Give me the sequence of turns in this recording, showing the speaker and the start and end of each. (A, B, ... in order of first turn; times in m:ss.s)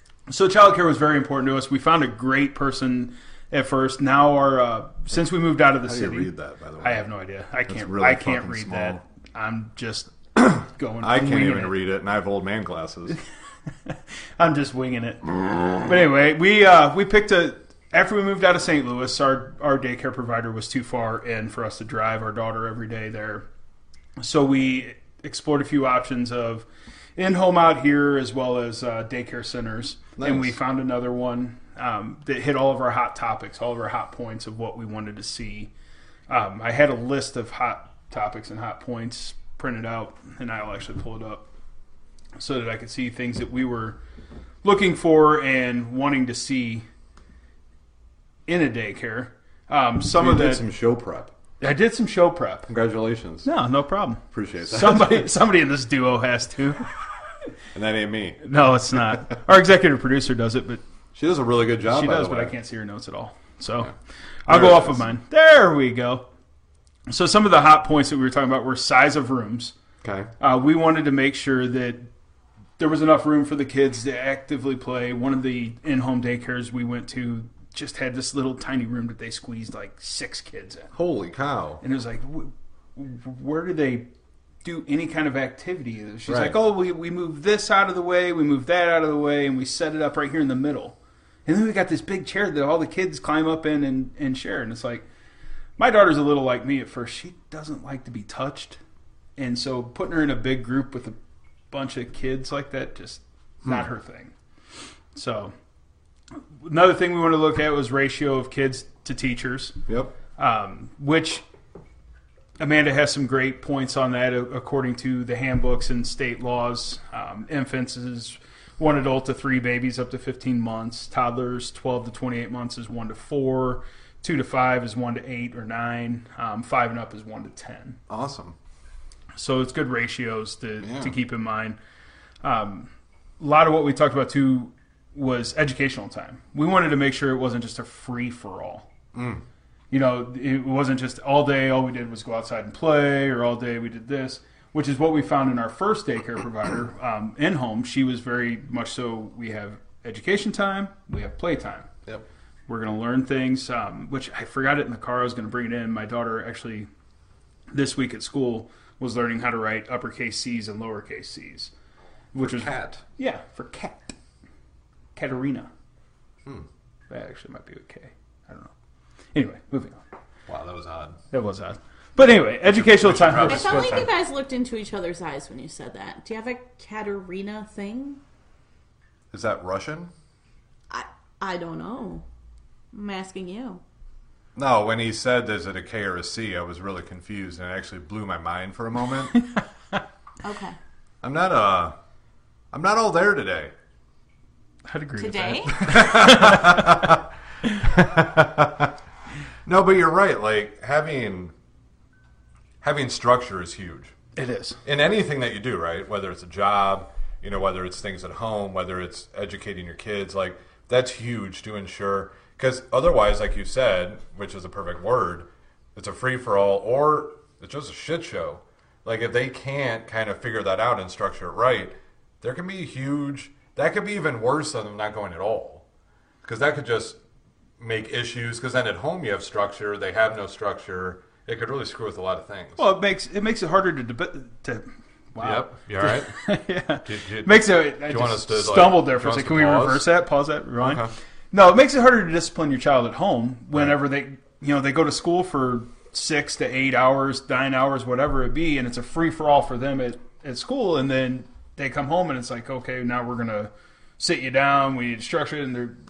0:00.3-0:11.8 A
0:05.8-0:07.0 B
0:07.7-0:09.0 B
0:10.4-0:13.2 B
0:13.8-0:23.4 A
0:24.2-0:26.6 A
0:27.2-0:35.7 A
0:30.2-0:30.6 B
0:36.3-0:41.5 A
0:42.4-0:44.0 A
0:44.6-0:46.8 A
0:48.5-0:50.6 A
0:50.1-0:51.3 B
0:51.6-0:52.7 A
0:52.7-0:53.5 B
0:53.4-0:56.8 A
0:54.3-0:55.3 B
0:57.7-0:58.4 B
0:58.4-1:00.8 A
1:01.1-1:02.5 B
1:01.9-1:03.9 A
1:04.4-1:06.3 A
1:04.5-1:05.1 B
1:07.1-1:09.7 A
1:10.0-1:10.3 B
1:10.4-1:12.1 A
1:12.8-1:20.9 A
1:20.9-1:21.8 B
1:21.8-1:24.1 A
1:24.6-1:35.0 A
1:26.3-1:26.6 B
1:35.8-1:38.8 A
1:39.4-1:41.2 A
1:41.7-1:44.3 A
1:45.1-1:45.5 A
1:46.6-1:49.8 A
1:49.9-1:50.1 B
1:50.4-1:51.4 A
1:52.6-2:08.0 A
2:08.1-2:08.6 B
2:09.4-2:11.8 A
2:10.8-2:11.1 B
2:12.4-2:18.9 A
2:19.1-2:19.4 B
2:19.9-2:31.9 A
2:32.7-2:36.9 A
2:37.7-2:41.7 A
2:42.3-2:44.1 A
2:42.4-2:43.0 B
2:45.1-2:45.7 A
2:47.1-2:48.7 A
2:49.3-2:50.0 A
2:50.5-2:51.2 B
2:51.3-2:54.1 A
2:52.6-2:54.1 B
2:53.4-2:58.2 C
2:59.3-3:00.1 B
3:00.9-3:02.2 C
3:02.9-3:03.8 C
3:04.5-3:09.4 B
3:09.3-3:10.0 A
3:10.4-3:10.8 C
3:11.2-3:12.0 B
3:12.7-3:13.7 B
3:14.8-3:17.1 A
3:15.2-3:16.0 C
3:15.8-3:17.3 B
3:17.8-3:18.9 B
3:19.6-3:21.5 B
3:22.8-3:24.1 B
3:24.4-3:24.8 A
3:24.8-3:45.8 B
3:46.4-3:47.2 B
3:47.8-3:52.8 B
3:52.8-4:16.0 A
3:55.4-3:56.4 B
3:57.0-4:00.1 B
4:00.8-4:01.1 B